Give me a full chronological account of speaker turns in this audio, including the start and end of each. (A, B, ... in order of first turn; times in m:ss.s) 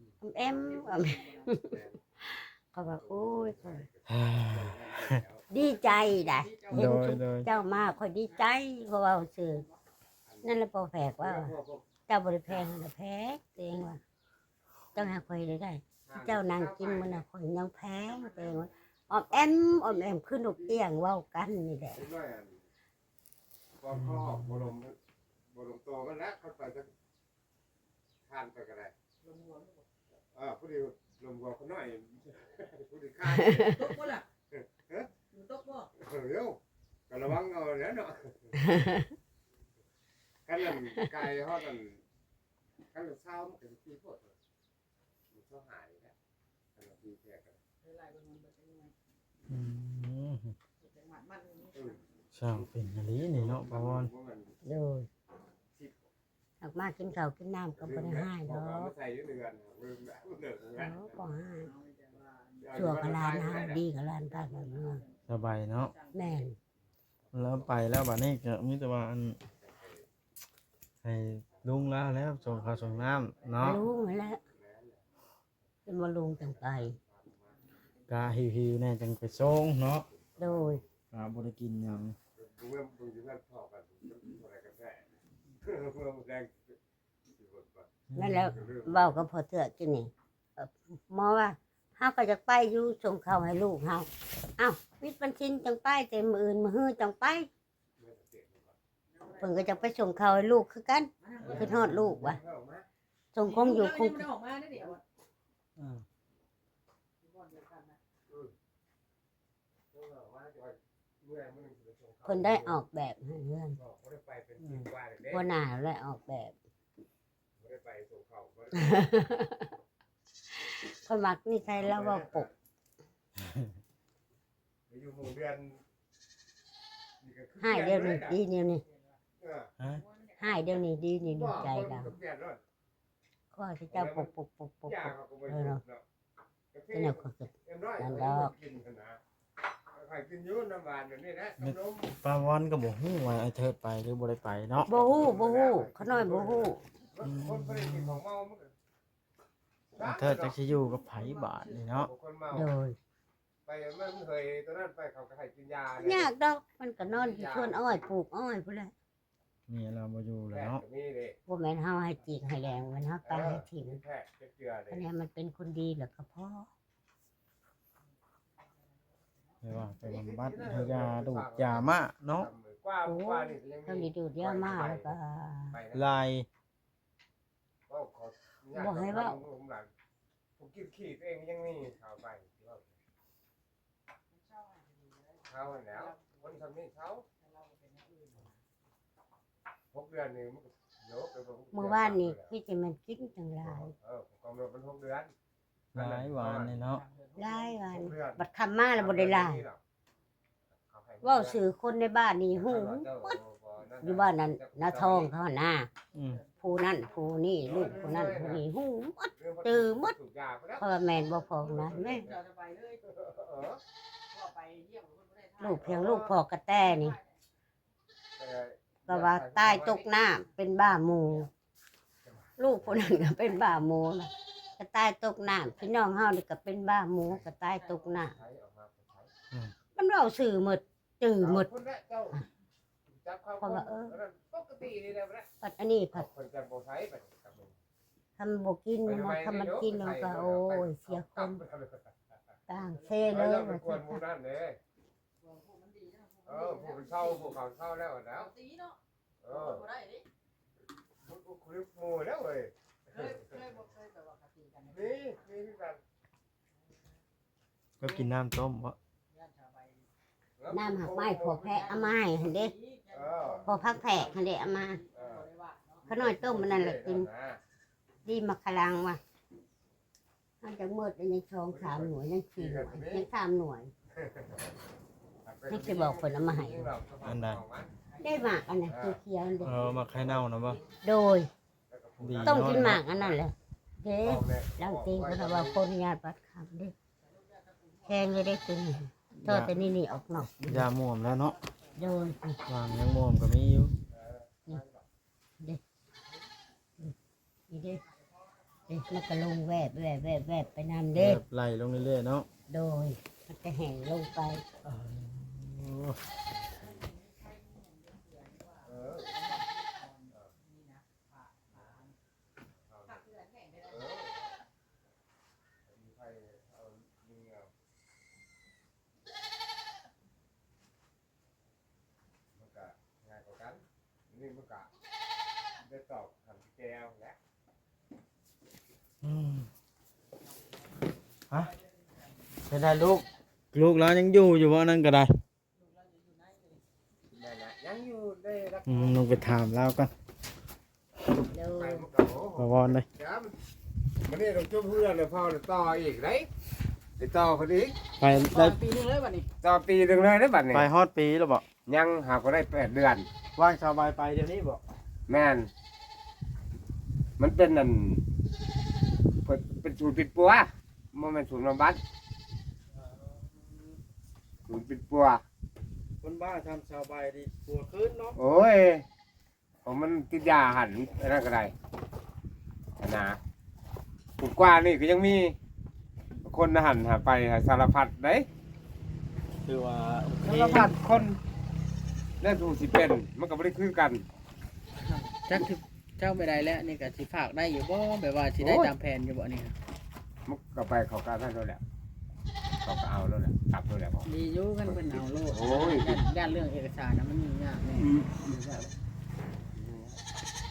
0:00.2-0:03.9 A
0:00.7-0:01.5 B
0:01.6-0:02.0 C
0:03.1-0:05.4 C
0:04.1-0:05.1 D
0:05.5-0:09.6 A
0:05.9-0:07.2 B
0:06.7-0:07.5 D
0:10.3-0:10.5 C
0:10.4-0:11.5 A
0:11.2-0:11.9 C
0:12.1-0:14.0 A
0:15.0-0:22.0 A
0:16.0-0:17.2 C
0:21.9-0:22.6 C
0:23.8-0:25.0 C
0:25.5-0:26.9 C
0:28.3-0:28.9 C
0:29.2-0:29.8 B
0:30.3-0:34.0 C
0:33.3-0:33.7 A
0:33.7-0:34.3 B
0:34.5-0:35.1 C
0:35.3-0:35.9 B
0:36.0-0:38.7 C
0:38.7-0:39.1 A
0:40.4-0:42.0 C
0:42.9-0:44.4 C
0:45.3-0:46.2 C
0:46.8-0:47.6 C
0:47.8-0:48.9 B
0:49.5-0:50.6 D
0:50.8-0:52.0 B
0:51.7-0:52.0 C
0:52.3-0:54.1 D
0:53.3-0:54.5 C
0:54.6-0:55.1 A
0:56.6-0:58.9 A
0:57.8-1:01.0 C
1:00.8-1:01.7 A
1:01.7-1:02.6 B
1:02.6-1:03.8 C
1:02.7-1:05.0 A
1:04.7-1:05.1 B
1:05.3-1:05.9 D
1:06.1-1:06.4 B
1:06.1-1:06.6 A
1:07.3-1:09.4 D
1:09.6-1:10.0 C
1:11.0-1:13.8 D
1:13.6-1:14.4 A
1:14.5-1:15.0 C
1:15.9-1:17.0 A
1:16.7-1:17.6 C
1:18.1-1:20.1 D
1:20.3-1:20.8 C
1:20.4-1:20.8 A
1:21.1-1:22.2 D
1:22.4-1:25.0 C
1:25.6-1:26.8 C
1:27.3-1:27.9 C
1:28.1-1:28.6 D
1:28.2-1:37.5 A
1:28.5-1:29.2 C
1:38.0-1:38.8 C
1:39.2-1:40.0 B
1:39.4-1:42.4 A
1:41.2-1:41.8 B
1:41.6-1:42.9 C
1:41.8-1:42.1 D
1:43.3-1:44.3 A
1:43.5-1:45.0 B
1:45.8-1:46.0 D
1:47.2-1:48.0 B
1:49.9-1:52.8 C
1:52.2-1:53.8 A
1:53.8-1:55.4 C
1:55.3-1:56.6 A
1:57.6-1:59.0 C
1:58.8-1:59.7 A
2:00.5-2:02.5 A
2:01.8-2:02.5 C
2:04.9-2:05.8 C
2:07.2-2:08.4 C
2:07.6-2:08.8 A
2:09.4-2:09.7 C
2:10.4-2:12.2 A
2:11.3-2:12.6 C
2:13.5-2:15.8 A
2:13.9-2:14.3 C
2:14.9-2:16.0 C
2:16.7-2:19.2 C
2:16.9-2:18.5 A
2:19.9-2:22.1 C
2:21.6-2:24.9 D
2:24.8-2:28.7 C
2:24.9-2:26.8 A
2:27.2-2:28.2 D
2:30.0-2:30.6 C
2:30.0-2:32.1 D
2:30.9-2:31.7 B
2:31.9-2:32.7 C
2:32.5-2:33.0 A
2:33.7-2:36.3 C
2:36.0-2:38.9 A
2:37.2-2:37.8 C
2:39.7-2:40.8 D
2:40.5-2:41.4 C
2:41.5-2:44.0 A
2:43.2-2:45.0 C
2:44.9-2:46.7 A
2:49.6-2:52.5 D
2:50.0-2:55.2 C
2:53.0-2:55.8 A
2:55.7-2:56.2 C
2:55.9-2:56.5 D
2:57.9-2:59.9 C
2:58.7-2:59.4 A
3:00.6-3:02.9 C
3:04.4-3:06.4 B
3:05.5-3:07.2 C
3:07.4-3:08.6 B
3:09.9-3:12.5 C
3:11.7-3:13.9 A
3:13.6-3:15.3 C
3:16.0-3:16.8 C
3:16.0-3:17.0 D
3:16.9-3:17.8 B
3:17.4-3:19.6 A
3:17.9-3:18.4 C
3:19.0-3:19.8 C
3:20.8-3:21.6 C
3:21.2-3:23.4 A
3:22.5-3:25.3 C
3:24.0-3:25.9 A
3:26.2-3:26.4 D
3:26.6-3:30.2 A
3:27.6-3:28.6 C
3:29.4-3:30.9 C
3:30.8-3:32.3 A
3:31.7-3:32.4 C
3:31.9-3:33.0 B
3:33.0-3:33.8 C
3:34.3-3:35.9 B
3:35.6-3:37.2 A
3:35.8-3:36.4 C
3:36.9-3:37.2 B
3:38.4-3:40.1 C
3:39.1-3:41.5 A
3:42.2-3:43.0 C
3:42.6-3:48.4 A
3:47.8-3:48.1 B
3:48.3-3:49.3 C
3:50.0-3:51.7 A
3:51.4-3:52.4 C
3:53.1-3:55.5 C
3:53.6-3:54.2 A
3:55.6-3:56.3 A
3:56.1-3:57.8 C
3:58.4-4:01.6 A
3:59.0-4:02.1 C
4:02.7-4:04.2 A
4:02.9-4:03.5 B
4:03.3-4:04.8 C
4:05.4-4:07.6 B
4:06.4-4:08.5 C
4:08.3-4:10.2 B
4:09.4-4:09.9 C
4:11.2-4:12.7 C
4:13.1-4:15.2 B
4:13.2-4:13.5 C
4:14.9-4:16.0 C
4:18.0-4:19.0 D
4:19.3-4:20.0 B
4:20.6-4:21.8 C
4:20.7-4:22.7 A
4:21.7-4:26.1 B
4:23.1-4:23.8 C
4:23.6-4:25.0 A
4:25.2-4:25.5 C
4:26.1-4:27.6 C
4:26.1-4:27.3 A
4:28.2-4:29.2 A
4:30.6-4:33.9 A
4:31.7-4:33.3 C
4:34.2-4:34.7 C
4:35.4-4:37.9 C
4:35.7-4:36.9 A
4:37.2-4:37.6 D
4:38.2-4:39.8 A
4:38.9-4:39.2 C
4:39.6-4:40.8 D
4:40.9-4:41.5 A
4:41.9-4:43.4 C
4:42.2-4:43.0 D
4:42.4-4:47.0 A
4:44.2-4:45.8 C
4:48.0-4:50.9 A
4:49.4-4:49.8 D
4:50.7-4:51.6 D
4:52.0-4:52.6 A
4:52.7-4:53.9 D
4:54.1-4:55.0 C
4:57.7-4:58.0 A
4:58.9-5:01.4 A
5:01.2-5:02.5 D
5:02.7-5:04.6 A
5:04.8-5:06.2 D
5:07.2-5:12.1 B
5:08.8-5:09.4 C
5:12.9-5:13.2 C
5:13.1-5:14.0 B
5:13.8-5:14.6 C
5:15.9-5:17.7 C
5:22.5-5:24.9 C
5:25.8-5:27.4 C
5:29.2-5:29.7 D
5:32.7-5:35.4 D
5:36.2-5:36.6 B
5:37.3-5:39.2 C
5:38.9-5:40.1 D
5:41.5-5:42.1 A
5:41.6-5:43.6 C
5:42.6-5:43.1 D
5:44.2-5:46.5 C
5:47.2-5:48.0 C
5:48.2-5:48.8 D
5:48.4-5:49.5 B
5:49.6-5:50.9 C
5:50.7-5:51.6 D
5:51.9-5:53.3 C
5:53.6-5:54.8 D
5:55.3-5:55.7 C
5:57.4-5:58.2 C
5:59.4-6:02.0 C
6:04.7-6:05.4 C
6:06.2-6:08.4 D
6:08.4-6:09.1 C
6:09.8-6:11.7 C
6:13.0-6:13.4 C
6:14.4-6:15.6 C
6:16.4-6:18.5 C
6:19.6-6:20.9 D
6:20.4-6:21.4 C
6:22.4-6:24.2 C
6:25.0-6:29.8 B
6:28.6-6:28.9 C
6:30.5-6:31.8 C
6:32.8-6:34.3 C
6:34.3-6:38.2 B
6:34.9-6:36.2 C
6:38.0-6:39.0 C
6:39.7-6:40.2 C